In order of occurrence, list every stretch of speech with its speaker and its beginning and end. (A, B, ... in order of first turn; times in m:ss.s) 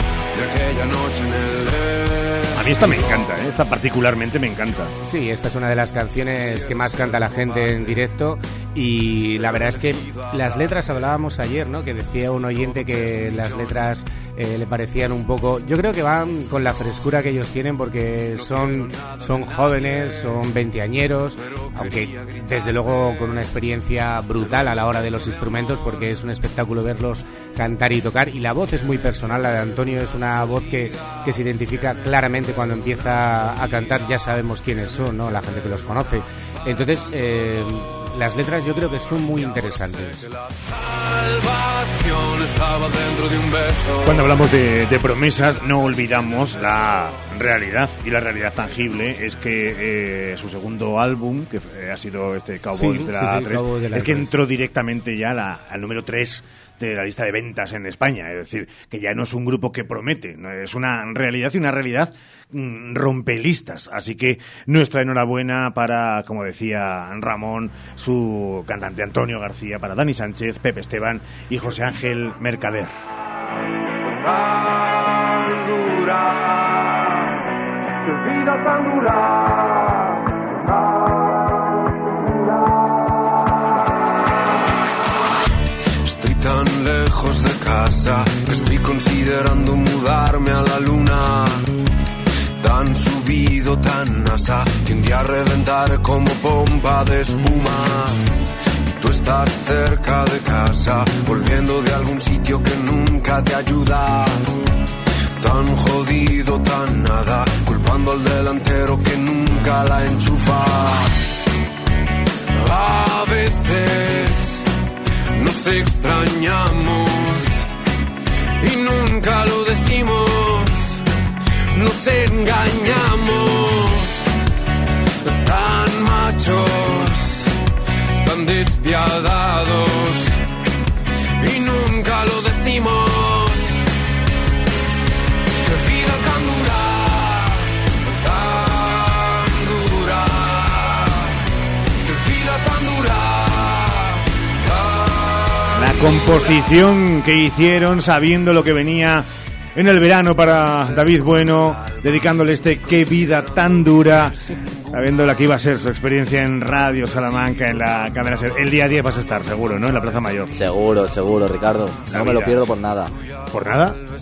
0:00.3-0:03.3 A
0:02.6-0:04.9 B
0:05.0-0:40.2 C
0:06.4-0:07.9 A
0:09.4-0:10.7 A
0:12.6-0:13.7 A
0:18.4-0:20.0 A
0:21.5-0:23.2 A
0:40.5-0:44.3 A
0:44.0-1:12.9 B
0:52.8-0:54.4 C
1:14.2-1:16.4 A
1:18.5-1:19.1 A
1:26.0-1:31.7 A
1:32.6-1:38.2 A
1:39.0-1:44.5 A
1:45.4-1:51.2 A
1:52.5-1:54.6 A
1:55.4-1:57.7 A
1:58.6-2:01.0 A
2:01.8-2:04.4 A
2:05.2-2:07.5 A
2:08.2-2:10.4 A
2:11.4-2:13.8 A
2:15.6-2:21.3 A
2:22.0-2:26.8 A
2:25.8-2:34.4 B
2:30.7-2:34.7 A
2:34.9-2:40.5 B
2:40.5-2:43.1 D
2:42.1-2:42.6 B
2:43.5-2:44.0 B